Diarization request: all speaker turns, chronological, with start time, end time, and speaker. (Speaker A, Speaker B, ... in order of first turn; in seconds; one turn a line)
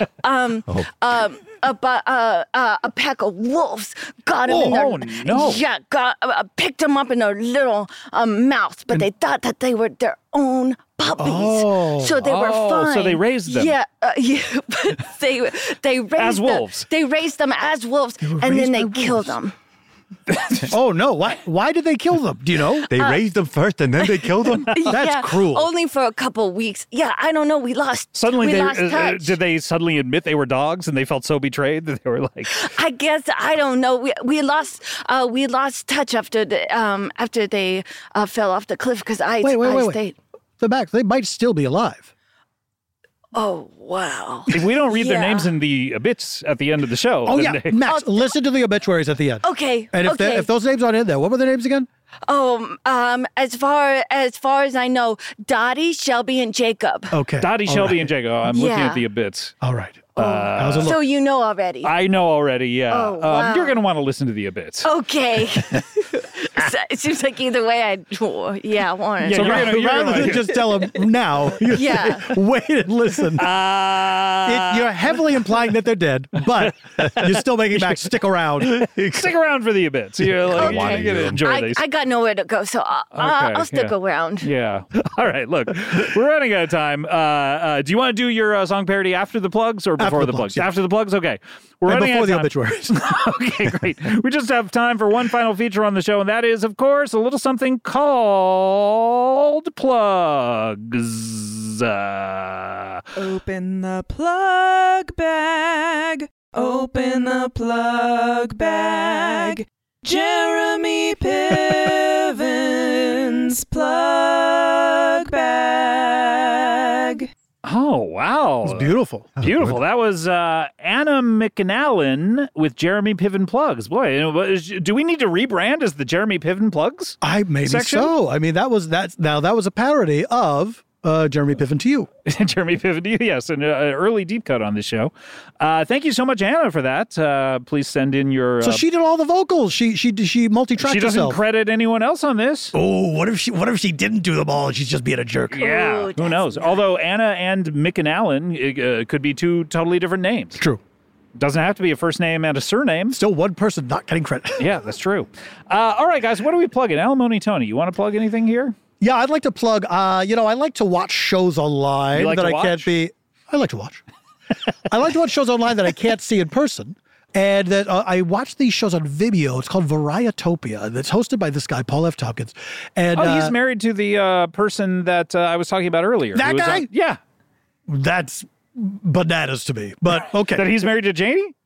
Speaker A: 0.2-19.5
Speaker B: 4.5-5.6
Speaker C: 11.2-12.2
Speaker B: 12.2-13.7
Speaker B: 16.2-16.9
Speaker C: 18.2-19.4
Speaker B: 20.3-20.7
Speaker C: 20.7-22.9
Speaker D: 22.9-24.9
Speaker A: 22.9-23.2
Speaker A: 24.0-29.4
Speaker C: 24.9-25.7
Speaker B: 28.1-32.6
Speaker A: 32.5-40.2
Speaker C: 39.4-40.0
Speaker C: 40.6-42.1
Speaker A: 43.3-45.5
Speaker B: 44.5-47.8
Speaker C: 47.3-51.9
Speaker A: 47.9-48.3
Speaker A: 49.4-50.5
Speaker A: 52.3-57.1
Speaker C: 57.1-58.1
Speaker B: 57.4-59.5
Speaker A: 58.5-59.0
Speaker C: 59.6-61.0
Speaker B: 60.2-61.0
Speaker A: 60.2-61.9
Speaker B: 61.8-64.9
Speaker A: 62.9-63.8
Speaker A: 64.8-69.9
Speaker B: 69.2-70.7
Speaker C: 69.3-73.5
Speaker A: 71.7-72.4
Speaker B: 73.3-75.1
Speaker C: 74.4-79.0
Speaker B: 76.6-81.8
Speaker D: 80.3-81.4
Speaker A: 80.5-84.5
Speaker B: 83.1-103.0
Speaker C: 90.0-90.7
Speaker C: 91.9-93.0
Speaker E: 103.2-117.3
Speaker B: 117.6-128.1
Speaker C: 118.7-119.3
Speaker D: 119.4-119.8
Speaker C: 127.2-132.1
Speaker B: 132.3-138.8
Speaker C: 138.6-141.4
Speaker B: 140.8-142.8
Speaker C: 142.7-145.7
Speaker B: 145.5-150.6
Speaker A: 145.6-146.8
Speaker C: 150.6-150.8
Speaker B: 151.4-153.2
Speaker C: 153.1-154.7
Speaker B: 154.6-158.8
Speaker C: 159.0-164.0
Speaker B: 162.1-162.9
Speaker C: 164.9-173.6
Speaker B: 173.1-177.2
Speaker C: 176.3-176.9
Speaker C: 177.9-180.7
Speaker B: 180.5-181.5